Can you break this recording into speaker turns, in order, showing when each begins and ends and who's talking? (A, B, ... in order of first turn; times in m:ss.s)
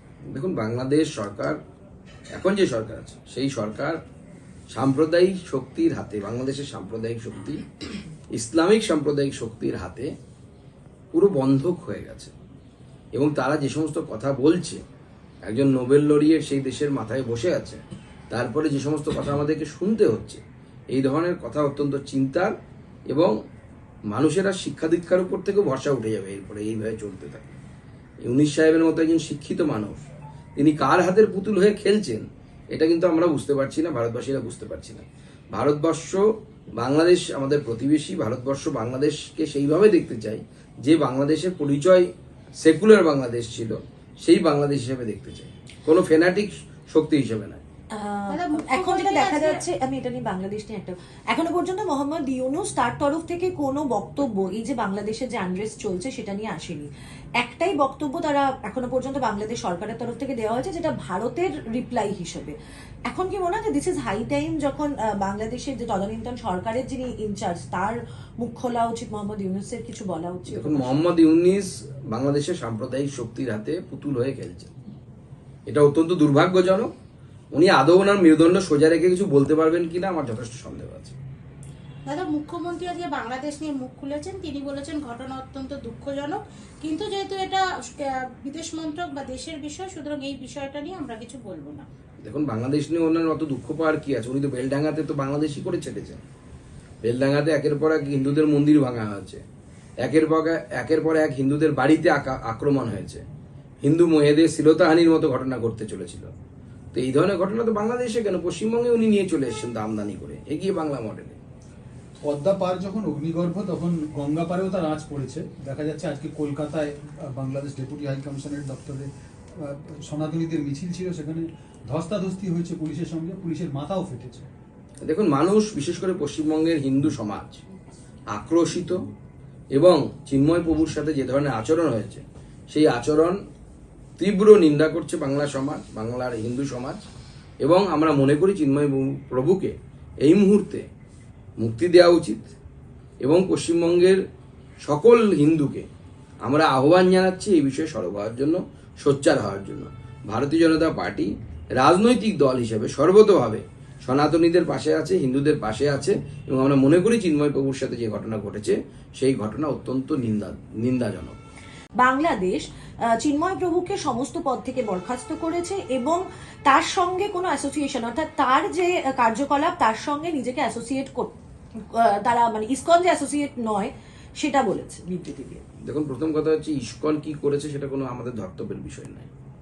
0:00.3-0:01.6 A
0:02.3-0:04.0 A
0:04.7-0:07.7 A
0:08.3-0:10.1 A
0:11.1-0:12.3 A
0:13.1-0:14.8 A
0:15.4-0:22.5 A
0:23.1-0:23.3 A
0:24.1-0:27.6 A
0:28.2-0:47.6 A
0:47.9-0:56.9 B
0:48.3-0:49.6 C
0:57.4-1:02.5 B
1:03.1-1:11.0 B
1:10.5-1:14.7 A
1:15.7-1:16.9 A
1:17.5-1:21.2 A
1:22.1-1:31.8 C
1:32.2-1:36.2 A
1:37.0-1:39.4 A
1:40.0-1:43.2 A
1:43.8-1:46.3 A
1:46.9-1:51.4 A
1:52.2-2:04.5 D
2:05.0-2:07.6 A
2:08.3-2:09.0 A
2:09.7-2:13.4 A
2:14.2-2:17.1 A
2:17.6-2:20.8 A
2:21.6-2:22.5 A
2:23.2-2:24.2 A
2:24.8-2:25.9 A
2:26.4-2:41.4 A
2:42.0-2:42.6 B
2:43.2-2:51.3 B
2:52.0-2:55.6 B
2:55.8-2:59.3 A